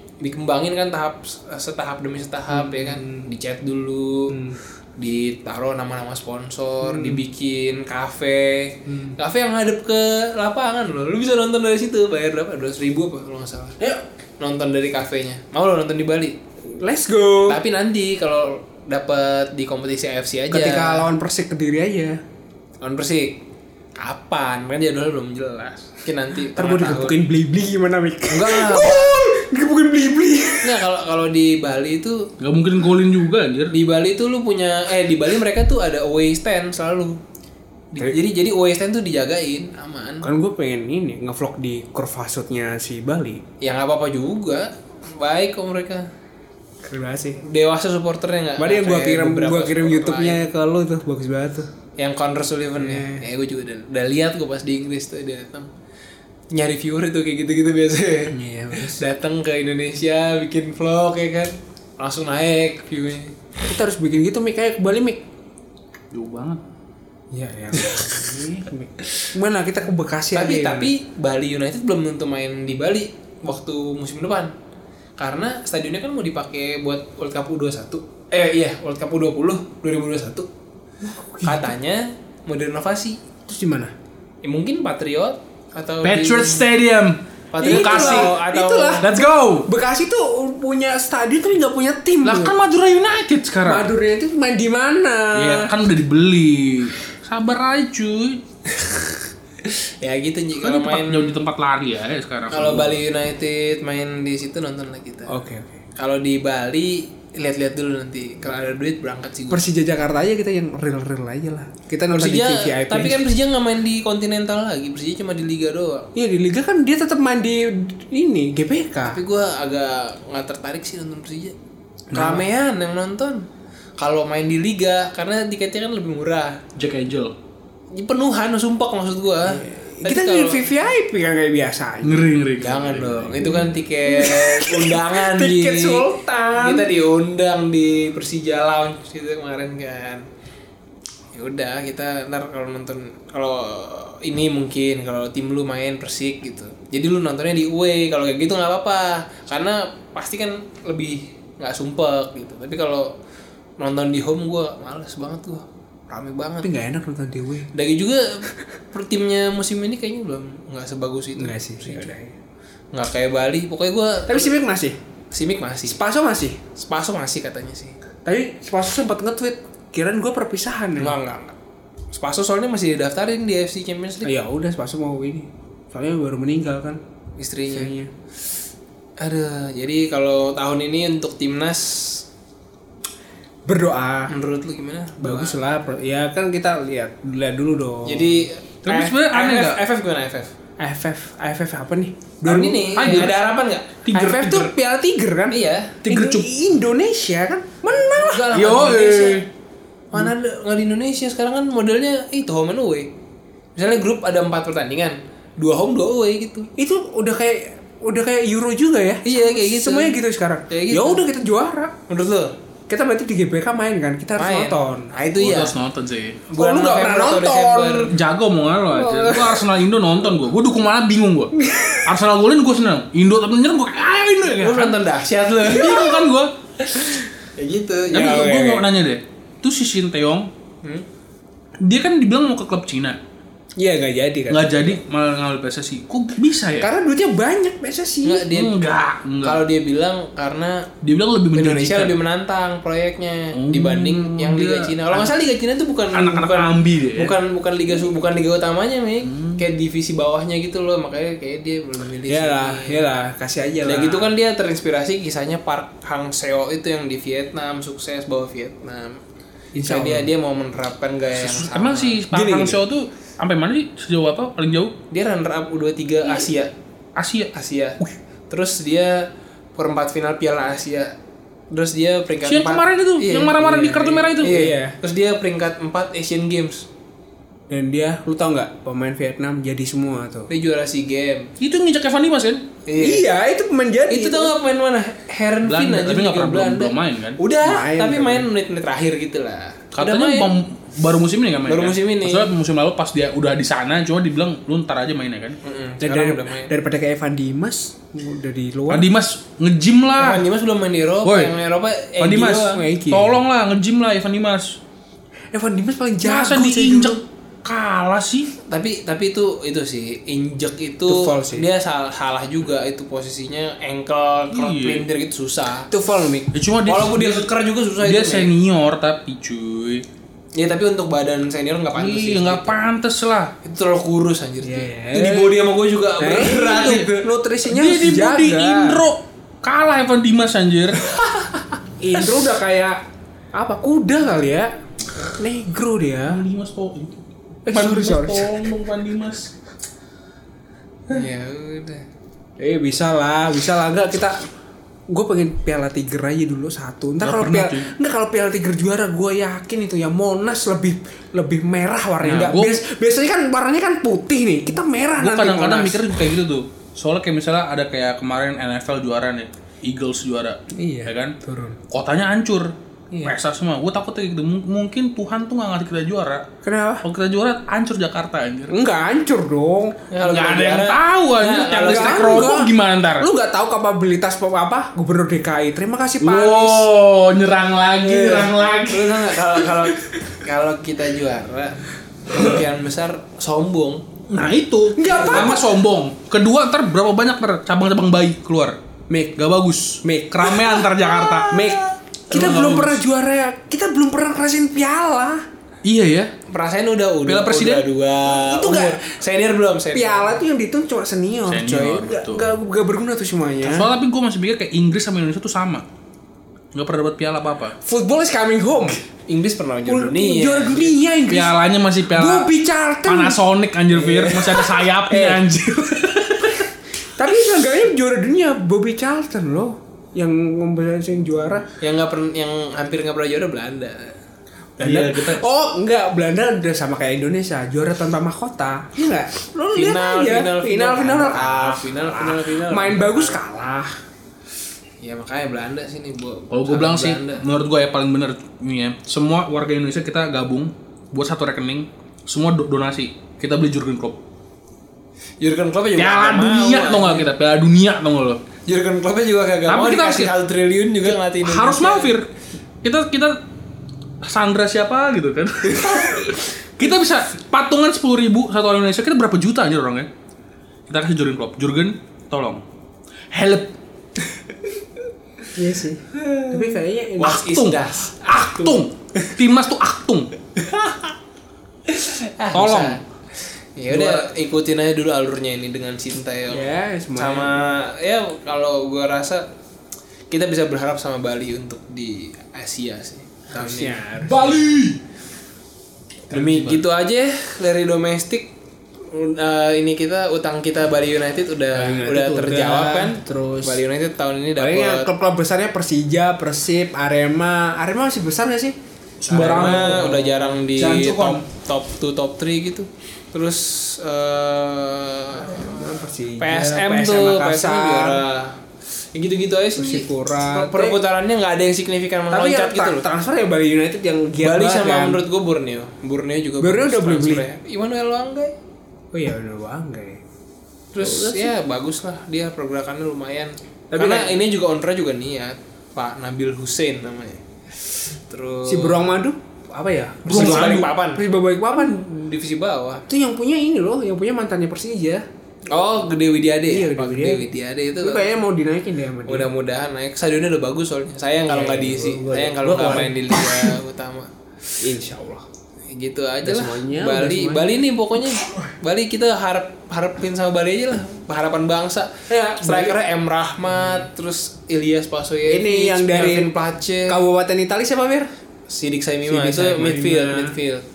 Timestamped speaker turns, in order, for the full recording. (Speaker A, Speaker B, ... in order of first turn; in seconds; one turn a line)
Speaker A: 0.2-4.4
Speaker B: 2.5-3.3
Speaker B: 4.3-4.6
Speaker A: 5.0-13.8
Speaker B: 6.8-7.2
Speaker B: 8.9-9.1
Speaker A: 14.4-16.4
Speaker B: 16.6-17.6
Speaker A: 17.5-21.1
Speaker B: 20.5-22.2
Speaker A: 22.8-23.4
Speaker A: 24.0-27.2
Speaker B: 26.5-30.8
Speaker A: 28.3-29.2
Speaker A: 30.6-32.3
Speaker C: 32.4-33.7
Speaker A: 33.7-37.2
Speaker A: 37.9-40.3
Speaker B: 40.2-43.4
Speaker A: 43.6-46.1
Speaker B: 46.8-47.4
Speaker A: 47.4-50.4
Speaker B: 48.6-51.7
Speaker A: 52.0-55.7
Speaker B: 52.8-53.2
Speaker A: 56.5-63.3
Speaker B: 58.3-59.0
Speaker B: 63.7-65.2
Speaker C: 66.1-66.6
Speaker B: 67.3-70.9
Speaker A: 70.3-74.5
Speaker A: 75.2-80.5
Speaker B: 81.0-81.7
Speaker A: 81.4-83.2
Speaker B: 83.5-83.9
Speaker A: 84.4-86.6
Speaker C: 86.0-88.3
Speaker A: 87.5-89.0
Speaker B: 87.6-92.5
Speaker C: 89.0-89.7
Speaker C: 92.2-93.9
Speaker B: 93.6-95.7
Speaker C: 95.3-98.4
Speaker A: 98.7-101.4
Speaker C: 100.6-103.0
Speaker A: 102.5-105.3
Speaker B: 105.3-105.8
Speaker A: 106.0-109.6
Speaker B: 109.5-113.3
Speaker A: 112.1-116.1
Speaker B: 116.1-119.2
Speaker A: 119.0-121.5
Speaker B: 122.1-122.4
Speaker A: 122.1-123.5
Speaker A: 124.0-126.6
Speaker C: 126.8-127.3
Speaker A: 127.9-130.6
Speaker B: 129.5-132.3
Speaker C: 132.0-133.4
Speaker A: 132.6-140.2
Speaker B: 133.4-136.9
Speaker A: 141.3-153.1
Speaker A: 153.8-156.7
Speaker B: 156.6-157.7
Speaker A: 157.7-162.1
Speaker B: 161.3-162.3
Speaker A: 162.9-164.5
Speaker B: 164.3-165.0
Speaker A: 165.3-166.0
Speaker B: 165.9-166.6
Speaker A: 166.8-167.9
Speaker B: 168.2-171.2
Speaker A: 171.0-171.6
Speaker A: 172.1-174.3
Speaker B: 174.2-177.0
Speaker A: 177.4-177.9
Speaker B: 177.7-178.1
Speaker A: 179.2-182.2
Speaker B: 183.7-184.3
Speaker A: 184.3-185.6
Speaker B: 185.2-188.4
Speaker A: 188.0-190.5
Speaker C: 188.8-189.8
Speaker B: 190.8-193.3
Speaker A: 192.4-194.7
Speaker C: 192.9-193.4
Speaker C: 194.0-194.6
Speaker B: 194.1-198.5
Speaker A: 195.5-196.0
Speaker C: 196.0-196.5
Speaker A: 198.0-199.4
Speaker C: 198.5-199.4
Speaker A: 200.1-203.1
Speaker A: 203.8-206.7
Speaker B: 206.8-211.9
Speaker A: 209.2-210.2
Speaker A: 210.7-211.2
Speaker A: 212.1-212.5
Speaker B: 212.9-215.1
Speaker A: 214.4-215.7
Speaker C: 215.4-216.4
Speaker A: 216.5-218.1
Speaker B: 216.5-218.1
Speaker C: 218.1-225.0
Speaker B: 218.9-219.7
Speaker B: 221.6-222.1
Speaker A: 224.4-226.2
Speaker C: 225.6-226.5
Speaker A: 226.8-228.8
Speaker C: 228.1-230.5
Speaker C: 231.8-233.2
Speaker B: 233.8-235.0
Speaker C: 234.5-236.9
Speaker B: 236.8-238.5
Speaker A: 238.2-238.8
Speaker C: 238.5-239.6
Speaker A: 239.4-240.9
Speaker C: 241.0-242.2
Speaker A: 241.5-253.0
Speaker C: 243.5-245.3
Speaker C: 246.1-247.3
Speaker C: 249.2-249.6
Speaker B: 252.3-254.3
Speaker A: 253.8-259.2
Speaker B: 259.7-260.3
Speaker A: 259.8-262.2
Speaker C: 261.4-264.9
Speaker B: 262.3-262.8
Speaker A: 265.1-266.7
Speaker C: 267.1-268.1
Speaker A: 267.5-268.0
Speaker A: 268.5-271.1
Speaker A: 271.7-276.9
Speaker C: 272.4-274.6
Speaker B: 274.4-274.9
Speaker B: 277.7-280.5
Speaker A: 280.5-281.5
Speaker C: 281.6-282.7
Speaker A: 282.9-283.2
Speaker B: 283.0-284.5
Speaker A: 284.1-290.5
Speaker C: 285.6-287.4
Speaker B: 287.6-288.5
Speaker C: 289.9-295.6
Speaker A: 291.6-292.5
Speaker A: 295.6-296.7
Speaker B: 296.0-299.1
Speaker C: 298.9-300.4
Speaker A: 300.2-302.8
Speaker C: 301.2-301.5
Speaker C: 302.2-304.8
Speaker B: 302.7-303.4
Speaker B: 305.5-307.2
Speaker C: 306.2-308.5
Speaker A: 308.7-315.9
Speaker B: 311.1-311.7
Speaker C: 314.5-315.1
Speaker B: 315.9-316.5
Speaker C: 316.5-320.0
Speaker A: 316.8-318.5
Speaker A: 320.6-322.8
Speaker C: 322.0-323.5
Speaker A: 323.6-327.2
Speaker B: 324.6-329.0
Speaker C: 326.8-327.1
Speaker C: 327.6-331.2
Speaker B: 332.0-333.0
Speaker B: 333.5-336.4
Speaker C: 336.3-337.1
Speaker B: 337.6-338.7
Speaker C: 337.7-339.5
Speaker A: 341.1-342.0
Speaker B: 342.6-344.4
Speaker B: 345.1-356.0
Speaker C: 347.2-347.9
Speaker C: 352.2-352.8
Speaker C: 355.2-361.3
Speaker B: 360.7-361.8
Speaker C: 361.9-362.7
Speaker B: 363.1-363.4
Speaker C: 363.2-366.4
Speaker B: 366.6-367.0
Speaker C: 367.0-368.8
Speaker B: 368.7-370.0
Speaker A: 370.1-372.5
Speaker C: 370.2-373.3
Speaker B: 371.8-376.9
Speaker C: 376.2-379.4
Speaker A: 378.0-384.1
Speaker C: 384.3-388.8
Speaker B: 384.9-385.7
Speaker A: 385.1-385.5
Speaker B: 389.1-389.4
Speaker C: 389.4-393.0
Speaker B: 390.0-395.4
Speaker C: 395.8-396.3
Speaker A: 396.5-400.4
Speaker C: 397.2-397.9
Speaker B: 398.2-399.1
Speaker B: 399.9-403.9
Speaker C: 401.5-402.5
Speaker C: 403.6-405.8
Speaker C: 406.7-407.8
Speaker B: 407.8-409.0
Speaker A: 409.3-410.9
Speaker B: 409.8-411.6
Speaker C: 411.3-412.5
Speaker B: 412.1-413.4
Speaker C: 413.0-416.6
Speaker B: 413.9-415.9
Speaker B: 417.2-421.7
Speaker A: 421.8-424.1
Speaker B: 424.8-433.9
Speaker C: 424.8-425.4
Speaker A: 429.7-433.4
Speaker A: 435.0-437.4
Speaker C: 436.5-444.2
Speaker A: 445.4-447.3
Speaker C: 446.0-448.4
Speaker A: 448.6-452.1
Speaker C: 449.7-450.3
Speaker C: 451.0-452.3
Speaker C: 452.8-453.4
Speaker C: 454.2-460.1
Speaker A: 455.7-456.3
Speaker C: 460.9-462.6
Speaker C: 463.3-463.7
Speaker B: 465.5-467.5
Speaker A: 466.2-469.3
Speaker C: 467.2-470.3
Speaker A: 470.6-471.1
Speaker A: 471.9-473.0
Speaker B: 472.6-473.0
Speaker A: 473.8-479.5
Speaker B: 473.9-474.3
Speaker B: 476.5-477.7
Speaker A: 480.3-484.1
Speaker B: 483.5-484.6
Speaker C: 484.2-485.0
Speaker A: 486.3-488.5
Speaker C: 486.3-486.8
Speaker A: 489.0-495.1
Speaker B: 491.7-493.8
Speaker B: 494.6-498.8
Speaker C: 499.2-501.4
Speaker A: 499.3-505.8
Speaker B: 505.5-508.2
Speaker A: 506.4-508.6
Speaker A: 509.1-513.0
Speaker B: 509.7-511.0
Speaker B: 512.3-515.2
Speaker A: 514.4-518.5
Speaker B: 516.6-517.5
Speaker B: 519.1-520.2
Speaker A: 520.9-529.1
Speaker B: 521.0-521.5
Speaker B: 523.9-524.4
Speaker B: 528.6-532.0
Speaker C: 530.2-530.9
Speaker A: 530.2-531.2
Speaker A: 531.7-533.0
Speaker B: 533.1-535.2
Speaker A: 535.7-538.3
Speaker B: 536.7-537.5
Speaker B: 538.0-539.5
Speaker A: 539.2-544.8
Speaker B: 541.5-543.8
Speaker B: 544.8-545.5
Speaker A: 545.9-557.1
Speaker B: 546.4-547.8
Speaker B: 548.3-548.6
Speaker B: 552.3-553.0
Speaker B: 555.5-556.5
Speaker B: 557.1-558.3
Speaker A: 558.7-560.8
Speaker B: 559.2-560.6